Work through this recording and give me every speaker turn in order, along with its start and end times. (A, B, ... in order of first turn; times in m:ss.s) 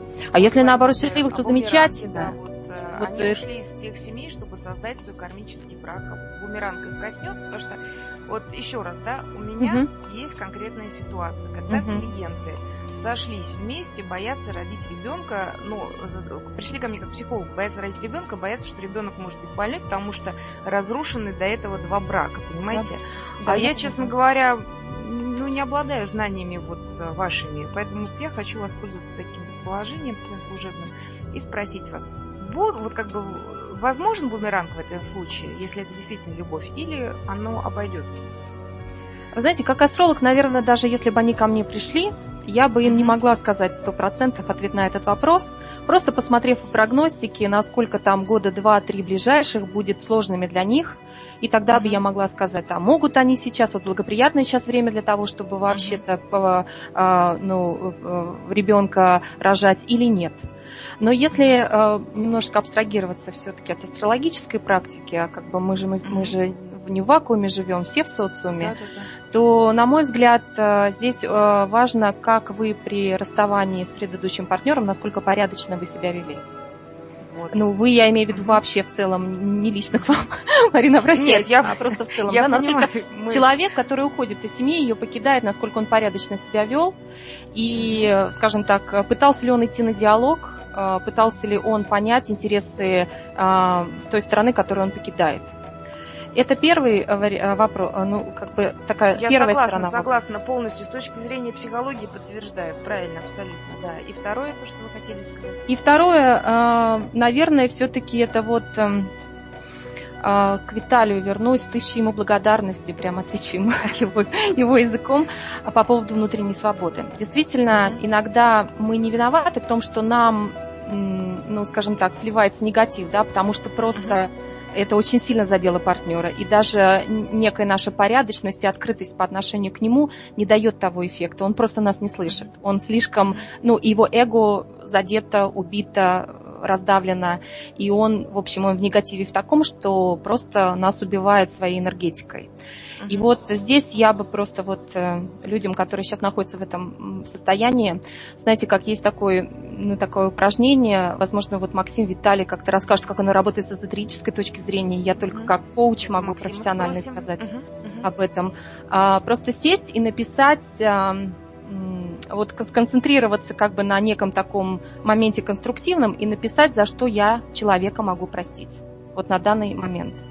0:00.3-0:02.4 A
0:00.3-0:38.2 B
0:03.0-0:03.4 A
0:09.6-0:09.9 A
0:11.7-0:12.1 A
0:23.4-0:24.1 A
0:39.4-1:00.5 A
0:42.8-0:43.1 B
0:51.7-0:52.0 B
0:55.7-0:56.0 B
1:01.0-1:08.7 A
1:06.0-1:06.4 B
1:08.6-1:09.1 B
1:09.3-1:16.4 A
1:17.2-1:17.7 B
1:17.5-1:27.0 A
1:21.1-1:23.5 B
1:27.5-1:35.5 A
1:27.8-1:28.1 B
1:36.3-1:40.4 A
1:39.2-1:45.6 B
1:45.7-1:49.1 A
1:50.2-2:22.5 A
1:57.7-1:58.0 B
2:23.0-2:23.3 B
2:23.1-2:37.5 A
2:35.2-2:35.5 B
2:36.2-2:38.1 B
2:38.0-2:50.2 A